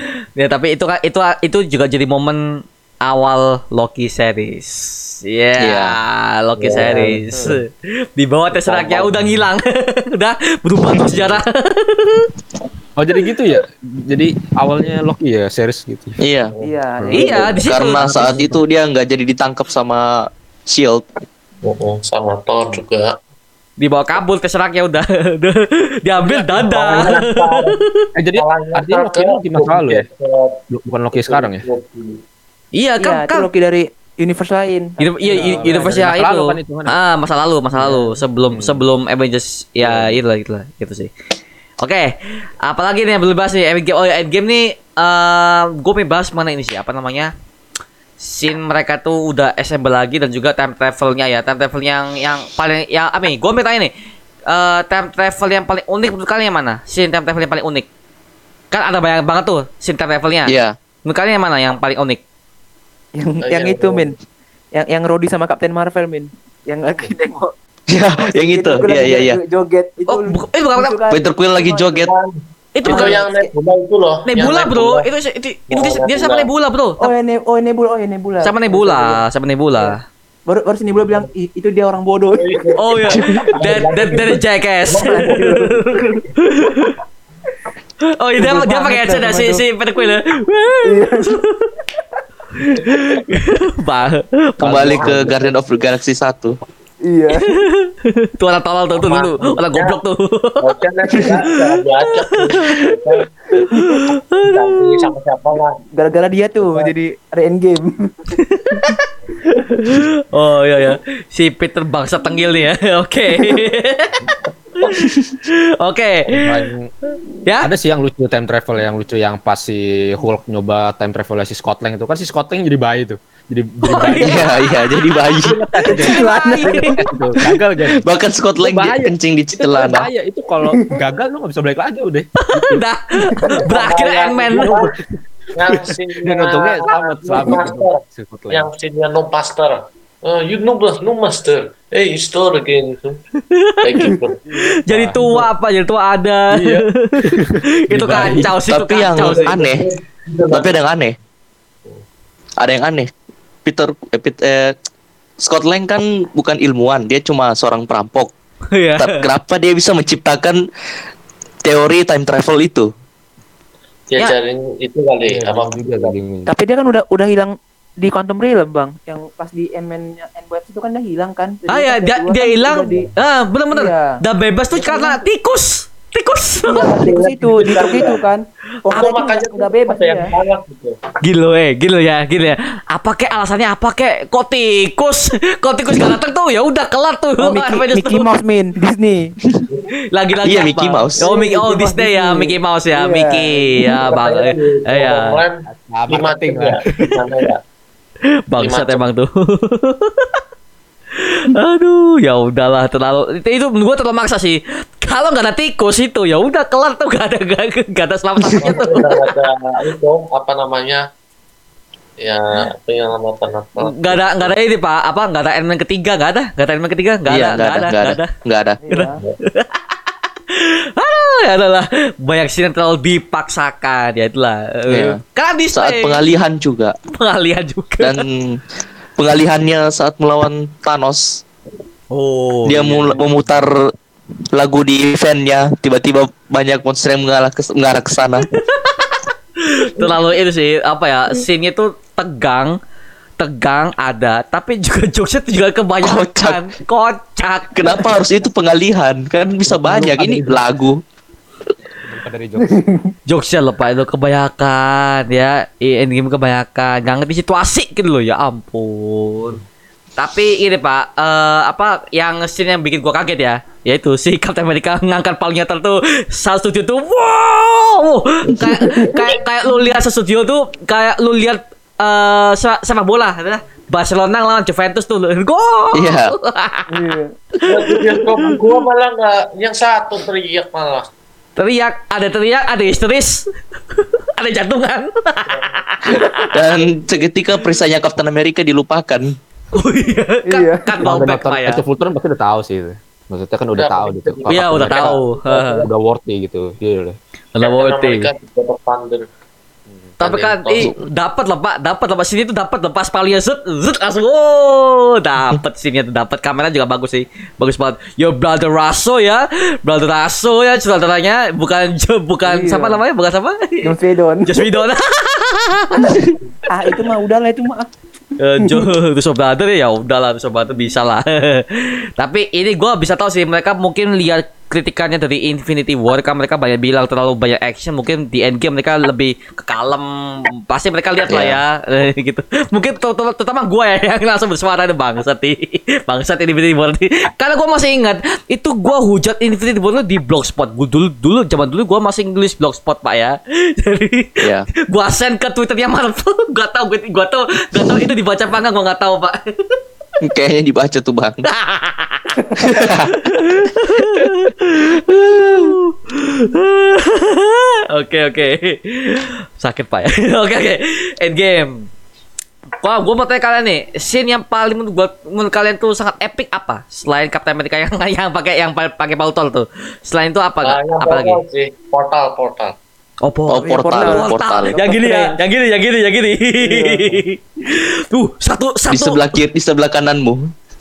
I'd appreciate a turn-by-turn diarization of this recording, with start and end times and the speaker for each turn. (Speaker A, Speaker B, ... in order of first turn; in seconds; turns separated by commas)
Speaker A: 0.3-12.3, Speaker B: 5.6-6.0, Speaker C: 6.7-7.6, Speaker D: 8.7-9.5, Speaker B: 10.8-11.2, Speaker D: 13.0-16.2, Speaker B: 16.2-16.5, Speaker C: 16.6-17.6, Speaker D: 17.0-18.6, Speaker A: 17.1-18.1, Speaker B: 17.5-21.0, Speaker E: 21.6-23.1, Speaker A: 23.8-28.0, Speaker D: 26.5-27.1, Speaker E: 26.8-27.8, Speaker D: 28.1-30.1, Speaker E: 28.3-30.6, Speaker D: 30.7-31.6, Speaker E: 31.1-32.2, Speaker A: 32.7-33.5, Speaker C: 33.0-35.9, Speaker A: 35.0-41.1, Speaker D: 35.2-37.0, Speaker D: 37.8-38.8, Speaker D: 39.8-40.2, Speaker A: 41.8-47.3, Speaker A: 48.2-53.9, Speaker A: 54.5-57.9, Speaker A: 58.7-60.5, Speaker B: 60.5-60.7, Speaker A: 61.0-62.2, Speaker C: 63.1-64.2, Speaker E: 63.4-64.1, Speaker C: 64.7-67.5, Speaker B: 67.9-69.4, Speaker C: 68.2-71.9, Speaker A: 70.1-71.0, Speaker B: 71.1-72.1, Speaker E: 71.8-75.1, Speaker A: 72.7-73.2, Speaker C: 72.8-73.5, Speaker A: 74.2-77.1, Speaker E: 75.7-76.5, Speaker C: 77.0-79.2, Speaker A: 78.4-80.0, Speaker C: 80.5-83.5, Speaker E: 80.9-81.3, Speaker E: 82.3-86.2, Speaker A: 82.8-86.9, Speaker C: 85.0-85.6, Speaker A: 88.2-91.7, Speaker C: 88.4-90.0, Speaker C: 90.8-91.4, Speaker A: 92.6-94.9, Speaker B: 94.6-96.6, Speaker D: 94.6-95.4, Speaker E: 94.8-95.6, Speaker C: 97.0-97.6, Speaker A: 97.3-100.7, Speaker E: 98.9-100.0, Speaker E: 100.6-103.3, Speaker A: 101.2-103.0, Speaker A: 103.5-105.0, Speaker C: 103.7-104.0, Speaker E: 104.3-105.8, Speaker C: 105.9-108.1, Speaker A: 108.4-114.2, Speaker C: 113.4-113.6, Speaker E: 114.8-115.1, Speaker A: 115.5-116.7, Speaker D: 116.3-116.9, Speaker A: 117.4-117.7, Speaker D: 117.6-124.5, Speaker A: 123.8-125.2, Speaker B: 124.2-125.5, Speaker D: 125.4-128.0, Speaker C: 125.9-127.3, Speaker A: 125.9-127.0, Speaker B: 128.0-130.1, Speaker D: 128.6-132.8, Speaker A: 132.5-134.9, Speaker E: 133.6-134.9, Speaker E: 135.5-143.2, Speaker D: 135.9-138.7, Speaker A: 143.5-149.5, Speaker E: 143.8-144.4, Speaker D: 144.4-145.5, Speaker D: 146.5-148.6, Speaker B: 148.7-149.8, Speaker E: 149.1-150.8, Speaker B: 150.5-151.1, Speaker B: 152.6-153.1, Speaker B: 153.6-154.8, Speaker B: 155.4-158.3, Speaker A: 158.7-159.2, Speaker B: 159.0-160.6, Speaker B: 161.6-162.9, Speaker E: 164.1-166.2, Speaker D: 165.3-166.5, Speaker C: 166.5-173.1, Speaker A: 171.7-177.0, Speaker C: 173.7-174.2, Speaker C: 174.7-175.2, Speaker C: 176.6-180.3, Speaker E: 176.7-178.2, Speaker E: 178.9-181.0, Speaker A: 181.2-188.3, Speaker C: 187.4-189.3, Speaker A: 190.1-195.4, Speaker B: 190.4-191.3, Speaker C: 191.2-194.0, Speaker E: 193.8-197.6, Speaker D: 195.7-197.2, Speaker A: 198.5-200.3, Speaker E: 198.6-199.1, Speaker A: 201.4-209.1, Speaker E: 208.6-211.0, Speaker E: 212.2-214.5, Speaker A: 213.8-218.3, Speaker B: 217.3-218.8, Speaker C: 218.8-219.2, Speaker A: 218.9-219.8, Speaker A: 220.5-226.2, Speaker B: 224.9-225.2, Speaker B: 225.7-226.9, Speaker A: 227.1-228.2, Speaker B: 228.0-228.6, Speaker B: 229.2-231.4, Speaker A: 232.1-233.2, Speaker B: 232.7-233.7, Speaker B: 234.5-238.5, Speaker A: 238.5-242.8, Speaker A: 243.4-248.1, Speaker B: 246.0-246.6, Speaker B: 247.7-251.0, Speaker D: 249.7-250.6, Speaker D: 252.0-252.7, Speaker C: 252.6-253.1, Speaker A: 253.3-259.6, Speaker A: 260.2-276.9, Speaker C: 268.6-270.0, Speaker B: 275.9-276.3, Speaker C: 276.9-278.6, Speaker E: 277.7-281.1, Speaker A: 281.6-286.6, Speaker E: 285.5-285.8, Speaker B: 286.5-289.3, Speaker A: 289.7-291.8, Speaker C: 290.5-291.0, Speaker D: 291.0-295.2, Speaker E: 293.7-295.9, Speaker A: 294.5-295.8, Speaker D: 295.8-297.2, Speaker A: 297.5-298.3, Speaker E: 297.6-299.3, Speaker E: 300.2-300.9, Speaker A: 300.2-316.2, Speaker C: 312.4-313.0, Speaker C: 313.8-314.7, Speaker C: 316.0-317.9, Speaker A: 318.4-349.8, Speaker C: 318.6-318.9, Speaker B: 331.3-331.6, Speaker B: 344.4-344.7, Speaker B: 350.2-351.4, Speaker A: 351.5-361.9, Speaker C: 352.4-352.7, Speaker B: 352.6-353.2, Speaker B: 355.1-355.7, Speaker A: 362.8-371.4, Speaker E: 370.6-372.7, Speaker A: 373.2-379.2, Speaker B: 373.5-374.8, Speaker C: 373.6-375.4, Speaker B: 378.9-380.5